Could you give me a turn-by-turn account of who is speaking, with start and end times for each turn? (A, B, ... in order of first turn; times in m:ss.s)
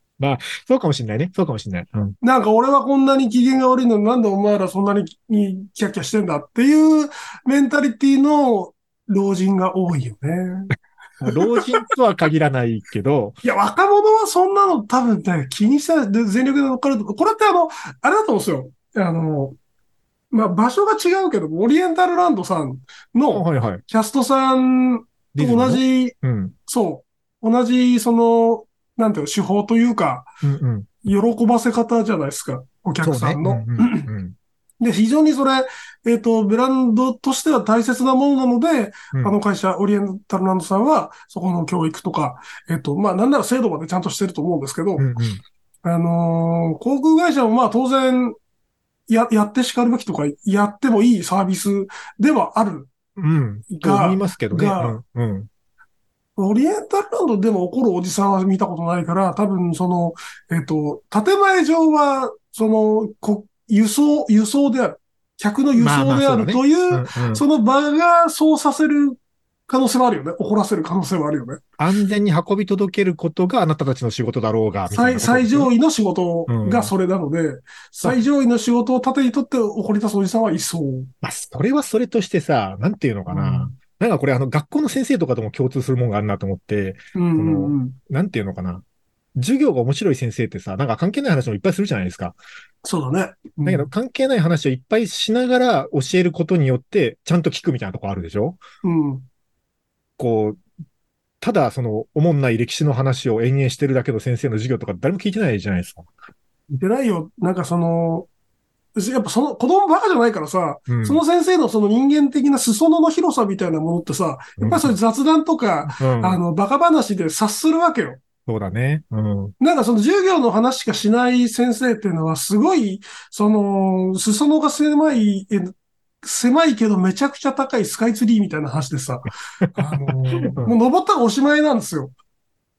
0:00.2-0:02.2 A
0:02.2-0:10.7 B
0:11.2-0:13.4 A
0:11.3-0:11.7 B
0:13.4-0:19.6 B
0:20.3-0:26.1 B
0:23.3-0:23.8 A
0:25.3-0:26.5 A
0:26.7-0:30.3 B
0:30.4-0:30.9 A
0:31.0-0:34.1 B
0:33.0-0:34.4 A
0:34.8-0:45.1 B
0:45.0-0:45.4 A
0:45.8-0:48.4 B
0:49.1-0:52.9 B
0:53.2-0:55.5 A
0:53.7-0:55.0 B
0:56.4-1:11.6 B
1:05.7-1:07.4 A
1:11.8-1:15.7 A
1:14.9-1:21.1 B
1:16.5-1:16.9 A
1:21.2-1:28.8 A
1:23.3-1:23.8 B
1:27.1-1:27.9 B
1:29.4-1:32.4 A
1:32.8-1:33.9 B
1:33.6-1:38.6 A
1:38.8-1:39.2 B
1:40.2-1:40.6 A
1:41.4-1:46.1 A
1:46.7-1:48.3 B
1:49.0-1:58.2 B
1:50.9-1:51.2 A
1:54.6-1:54.9 A
1:55.8-1:56.4 A
1:58.5-1:59.5 A
1:59.6-2:12.1 B
2:09.8-2:10.8 A